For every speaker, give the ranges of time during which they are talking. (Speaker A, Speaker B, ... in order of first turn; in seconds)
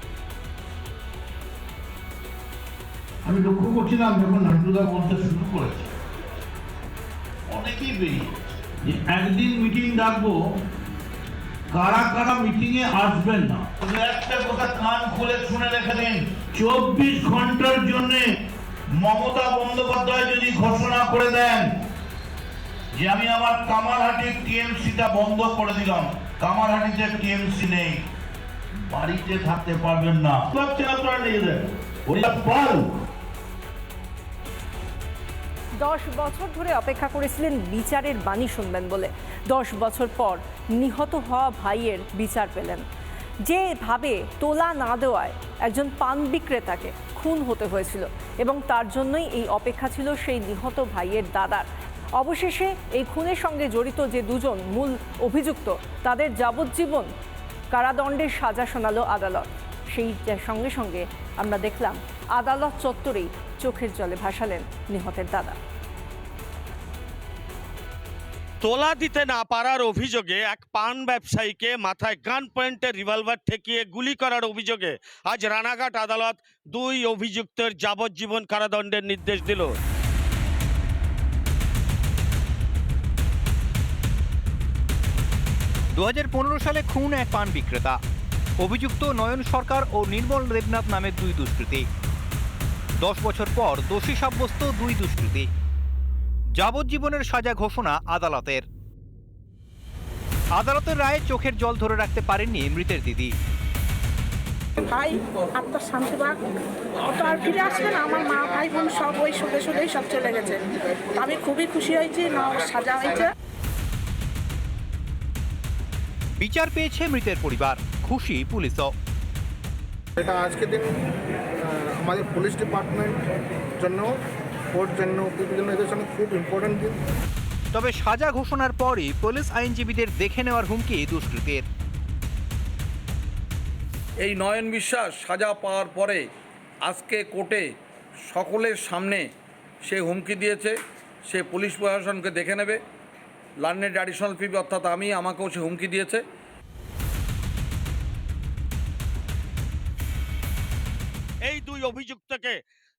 Speaker A: 3.2-5.9, 7.5-8.3, 8.8-10.4, 11.7-18.2, 18.9-21.6, 22.9-28.0, 28.9-32.8
Speaker B: 35.8-42.8, 43.4-57.1, 57.7-65.6
Speaker C: 68.6-79.8, 151.4-152.6
Speaker D: 85.9-88.0, 88.6-91.8, 93.0-95.5, 96.5-98.6, 100.5-103.3, 116.4-118.9, 127.7-131.6
Speaker E: 104.8-113.3
Speaker F: 120.2-121.0, 121.6-123.2, 123.8-124.1, 124.7-127.0
Speaker G: 134.2-136.2, 136.8-137.7, 138.3-139.2, 139.8-140.7, 141.3-142.8, 143.6-146.2